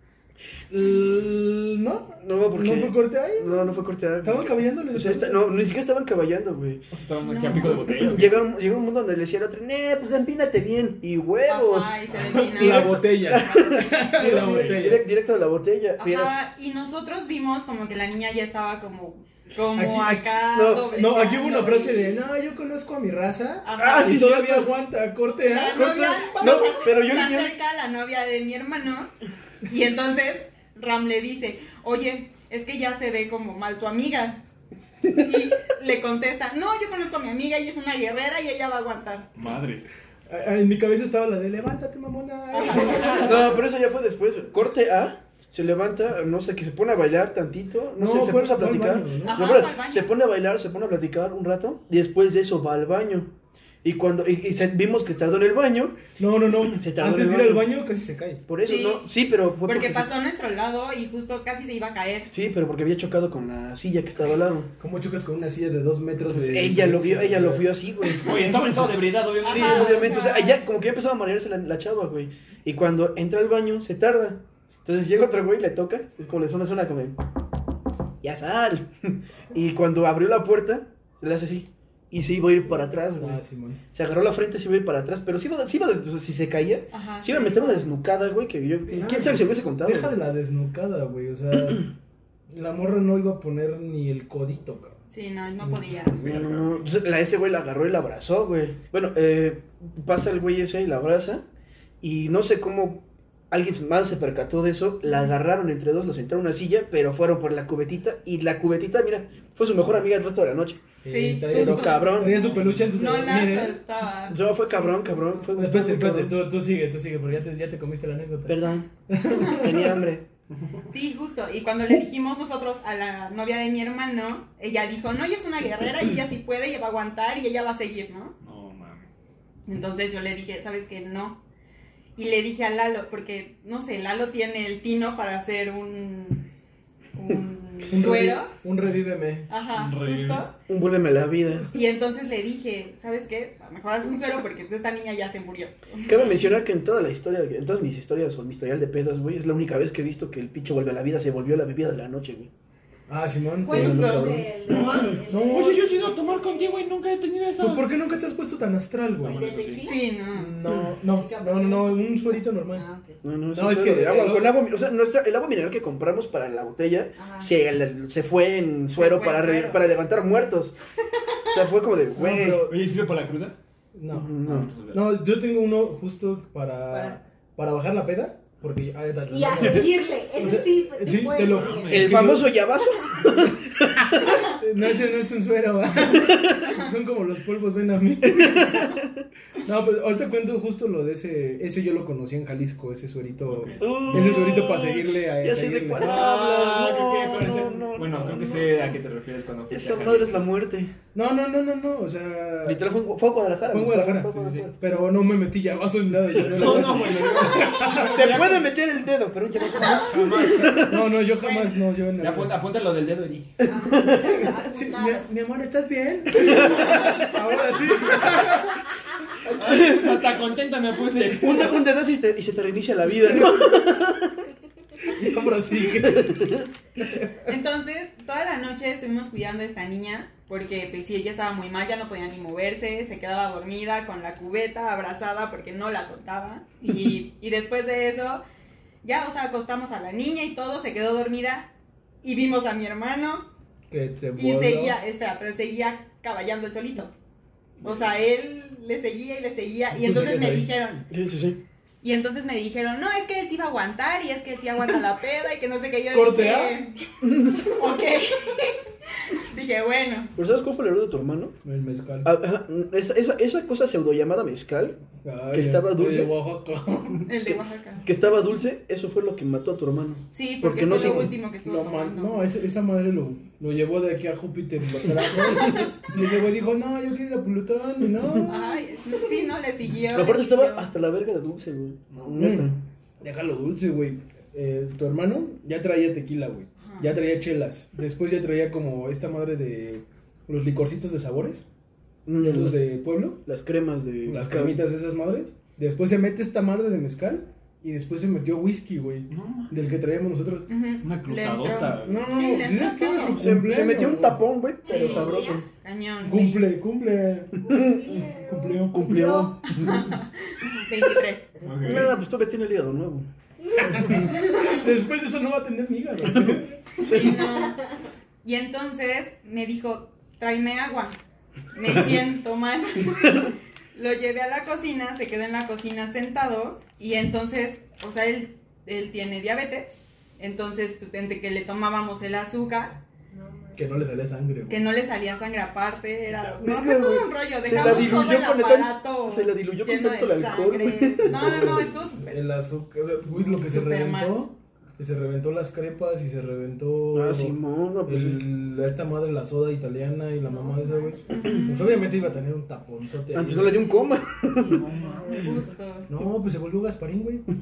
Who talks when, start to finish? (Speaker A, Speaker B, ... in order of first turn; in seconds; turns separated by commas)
Speaker A: 0.7-5.4, Speaker B: 2.2-6.8, Speaker C: 6.9-8.4, Speaker D: 7.2-7.8, Speaker B: 7.5-16.3, Speaker D: 11.4-14.5, Speaker A: 12.3-15.0, Speaker C: 14.4-14.8, Speaker D: 16.0-22.2, Speaker A: 19.7-20.3, Speaker B: 20.5-20.9, Speaker A: 20.9-26.7, Speaker D: 23.6-24.2, Speaker B: 23.8-24.8, Speaker D: 25.4-29.1, Speaker B: 26.3-27.6, Speaker D: 29.6-34.4, Speaker D: 35.1-39.3, Speaker C: 39.3-39.9, Speaker A: 40.3-43.6, Speaker D: 42.5-43.5, Speaker B: 43.1-53.3, Speaker A: 48.0-49.5, Speaker D: 49.2-50.1, Speaker B: 53.8-56.0, Speaker A: 56.2-58.4, Speaker B: 56.6-57.7, Speaker B: 58.5-60.1, Speaker D: 58.6-59.1, Speaker D: 59.6-62.3, Speaker B: 62.3-64.7, Speaker A: 64.8-67.8, Speaker B: 66.3-77.2, Speaker C: 68.1-70.1, Speaker D: 69.3-70.6, Speaker B: 78.2-83.4, Speaker A: 83.0-83.8, Speaker B: 83.9-90.1, Speaker D: 86.9-87.9, Speaker A: 88.9-91.9, Speaker A: 92.5-95.0, Speaker D: 95.1-96.2, Speaker C: 96.1-96.9, Speaker B: 96.2-101.4, Speaker B: 102.0-110.8, Speaker A: 111.0-113.8, Speaker D: 111.1-115.3, Speaker B: 111.5-112.5, Speaker C: 112.3-113.0, Speaker B: 114.3-116.4, Speaker A: 115.5-120.0, Speaker B: 118.5-120.2, Speaker D: 119.3-119.8, Speaker D: 120.9-128.3, Speaker C: 128.4-129.1, Speaker D: 129.7-131.4, Speaker D: 132.2-136.4, Speaker D: 137.1-138.5, Speaker A: 137.9-139.5, Speaker D: 139.5-140.5, Speaker C: 139.7-140.5, Speaker B: 140.7-141.7, Speaker D: 141.7-146.1, Speaker B: 146.1-152.5, Speaker A: 153.1-155.8, Speaker E: 153.6-156.9, Speaker B: 153.7-155.1, Speaker C: 153.8-157.9, Speaker A: 157.6-159.4, Speaker C: 159.2-159.9, Speaker E: 159.2-160.0, Speaker D: 159.8-160.6, Speaker A: 160.3-162.8, Speaker E: 161.0-163.2, Speaker B: 163.2-170.7, Speaker A: 163.5-164.6, Speaker E: 167.2-167.5, Speaker D: 168.9-169.8, Speaker B: 171.5-172.7, Speaker A: 172.2-172.8, Speaker C: 172.6-173.6, Speaker A: 173.9-174.3, Speaker B: 174.1-174.7, Speaker C: 174.4-175.2, Speaker A: 174.9-182.5, Speaker E: 176.9-177.2, Speaker E: 179.3-182.1, Speaker C: 181.4-182.4, Speaker B: 181.9-184.4, Speaker A: 184.4-188.9, Speaker B: 186.1-186.7, Speaker B: 188.2-189.2, Speaker A: 189.6-196.3, Speaker C: 193.5-194.7, Speaker B: 193.8-198.9, Speaker C: 195.9-200.5, Speaker B: 199.7-200.9, Speaker A: 201.1-202.8, Speaker B: 202.6-204.7, Speaker A: 203.7-208.4, Speaker C: 204.3-204.7, Speaker B: 206.4-211.0, Speaker C: 206.4-208.7, Speaker C: 209.9-210.9, Speaker A: 210.8-212.6, Speaker D: 211.4-211.8, Speaker C: 212.2-213.7, Speaker B: 213.7-214.5, Speaker E: 213.7-215.2, Speaker A: 214.4-218.8, Speaker B: 216.3-217.3, Speaker C: 219.4-221.8, Speaker B: 221.3-224.5, Speaker A: 225.0-227.3, Speaker B: 225.8-226.7, Speaker D: 227.5-238.4, Speaker D: 239.0-241.7, Speaker D: 242.2-243.5, Speaker A: 243.9-245.0, Speaker D: 244.4-247.1, Speaker D: 247.8-251.1, Speaker A: 249.9-250.7, Speaker B: 251.1-251.6, Speaker D: 252.0-257.0, Speaker A: 256.1-256.8, Speaker D: 257.5-260.3, Speaker B: 260.4-261.6, Speaker A: 261.6-262.3, Speaker B: 262.2-266.3, Speaker A: 265.2-267.3, Speaker D: 267.2-268.1, Speaker B: 267.5-271.3, Speaker D: 270.3-272.5, Speaker A: 271.6-278.7, Speaker B: 275.4-275.9, Speaker B: 278.2-278.5, Speaker D: 278.4-280.9, Speaker B: 280.1-282.8, Speaker C: 282.1-282.4, Speaker A: 282.4-291.6, Speaker D: 286.8-287.2, Speaker B: 292.2-292.8, Speaker A: 292.4-293.4, Speaker B: 293.4-294.8, Speaker A: 294.2-300.7, Speaker C: 299.3-299.8, Speaker D: 300.7-303.4, Speaker C: 301.0-302.4, Speaker A: 302.0-304.4, Speaker B: 303.0-305.6, Speaker E: 304.8-305.6, Speaker D: 304.9-306.7, Speaker A: 306.2-307.6, Speaker E: 307.6-309.6, Speaker B: 307.6-310.1, Speaker A: 308.4-309.3, Speaker D: 309.7-311.5, Speaker C: 311.6-312.1, Speaker B: 311.8-313.3, Speaker A: 313.8-316.8, Speaker B: 313.8-314.2, Speaker D: 314.3-314.9, Speaker B: 316.3-317.6, Speaker D: 317.0-317.8, Speaker E: 317.4-317.9, Speaker D: 318.4-321.1, Speaker D: 321.7-332.9, Speaker E: 333.3-333.8, Speaker A: 333.7-334.9, Speaker D: 334.7-342.4, Speaker B: 336.6-341.9, Speaker A: 341.3-353.8, Speaker D: 343.6-344.4, Speaker B: 347.1-348.4, Speaker E: 350.5-351.1, Speaker D: 351.3-352.1, Speaker B: 353.3-354.8, Speaker E: 353.8-354.2, Speaker C: 354.6-355.6, Speaker E: 354.8-355.6, Speaker D: 355.0-356.1, Speaker A: 356.1-357.5